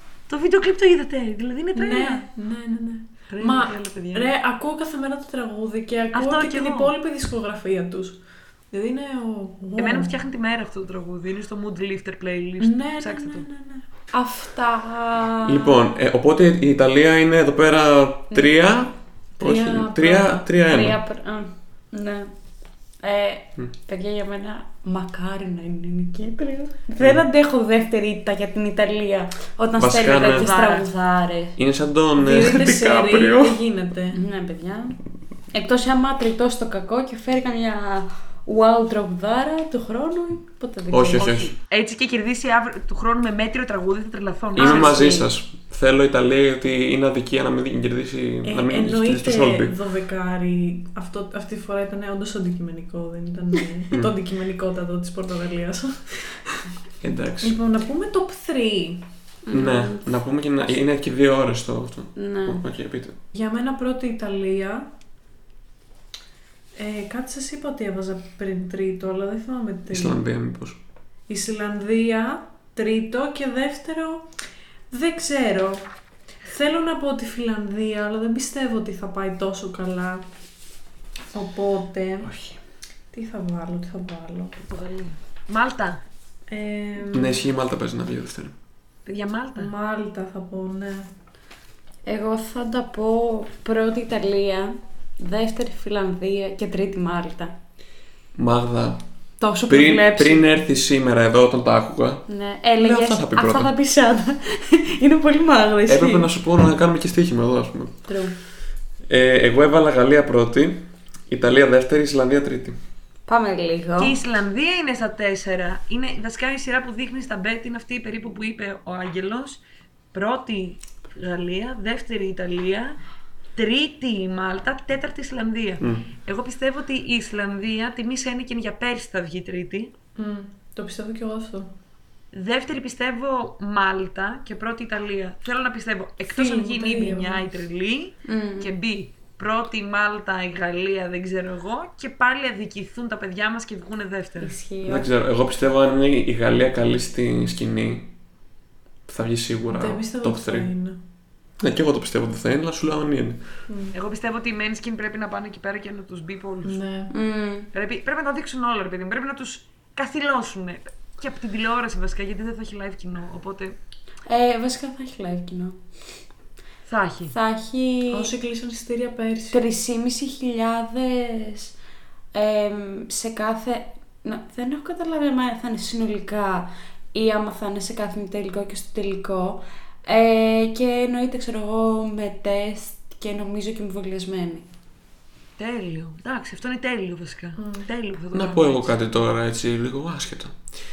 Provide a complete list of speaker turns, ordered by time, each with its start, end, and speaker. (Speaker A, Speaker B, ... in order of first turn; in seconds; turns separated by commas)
Speaker A: 0.3-2.3, Speaker B: 1.7-8.2, Speaker A: 3.3-4.3, Speaker A: 6.1-6.9, Speaker B: 8.7-10.1, Speaker A: 9.8-13.4, Speaker B: 12.6-13.8, Speaker C: 14.1-15.8, Speaker D: 15.4-21.0, Speaker B: 19.4-20.5, Speaker C: 20.7-22.3, Speaker C: 23.0-31.6, Speaker D: 29.8-30.5, Speaker A: 30.1-30.9, Speaker D: 31.6-33.6, Speaker B: 32.2-34.2, Speaker C: 34.1-35.0, Speaker C: 35.5-41.5, Speaker D: 40.9-41.5, Speaker A: 41.2-45.1, Speaker D: 44.5-49.8, Speaker C: 44.6-45.3, Speaker B: 48.4-56.6, Speaker D: 57.0-57.6, Speaker B: 57.4-59.1, Speaker C: 59.5-60.1, Speaker D: 59.5-63.2, Speaker C: 62.1-62.6, Speaker B: 63.3-64.9, Speaker B: 66.8-70.2, Speaker D: 69.9-70.8, Speaker B: 71.3-74.3, Speaker B: 74.9-75.9, Speaker B: 76.4-80.2, Speaker B: 81.3-82.3, Speaker D: 82.2-82.6, Speaker B: 83.1-84.6, Speaker A: 84.6-86.0, Speaker B: 86.5-87.5, Speaker D: 87.0-88.5, Speaker A: 89.0-89.7, Speaker B: 89.5-91.1, Speaker C: 92.0-97.5, Speaker D: 98.3-99.0, Speaker C: 99.4-100.5, Speaker D: 99.7-102.2, Speaker C: 102.3-106.3, Speaker D: 102.8-103.7, Speaker D: 105.9-108.0, Speaker C: 108.1-108.3, Speaker D: 109.1-112.8, Speaker C: 113.3-114.2, Speaker A: 114.0-119.6, Speaker A: 120.1-123.0, Speaker A: 123.5-129.9, Speaker D: 125.8-126.1, Speaker B: 130.2-131.7, Speaker A: 132.3-144.5, Speaker B: 136.3-137.4, Speaker C: 138.2-138.7, Speaker C: 144.4-145.1, Speaker D: 144.8-148.1, Speaker D: 149.1-150.7, Speaker B: 149.7-151.0, Speaker D: 151.6-153.4, Speaker B: 153.7-153.9, Speaker A: 153.9-156.8, Speaker B: 156.6-157.1, Speaker C: 157.1-157.7, Speaker A: 157.7-163.8, Speaker C: 164.2-165.8, Speaker A: 166.8-167.3, Speaker C: 167.3-168.3, Speaker B: 168.1-169.6, Speaker C: 169.5-171.7, Speaker C: 172.3-184.7, Speaker A: 185.6-188.9, Speaker B: 187.6-187.9, Speaker D: 188.3-190.5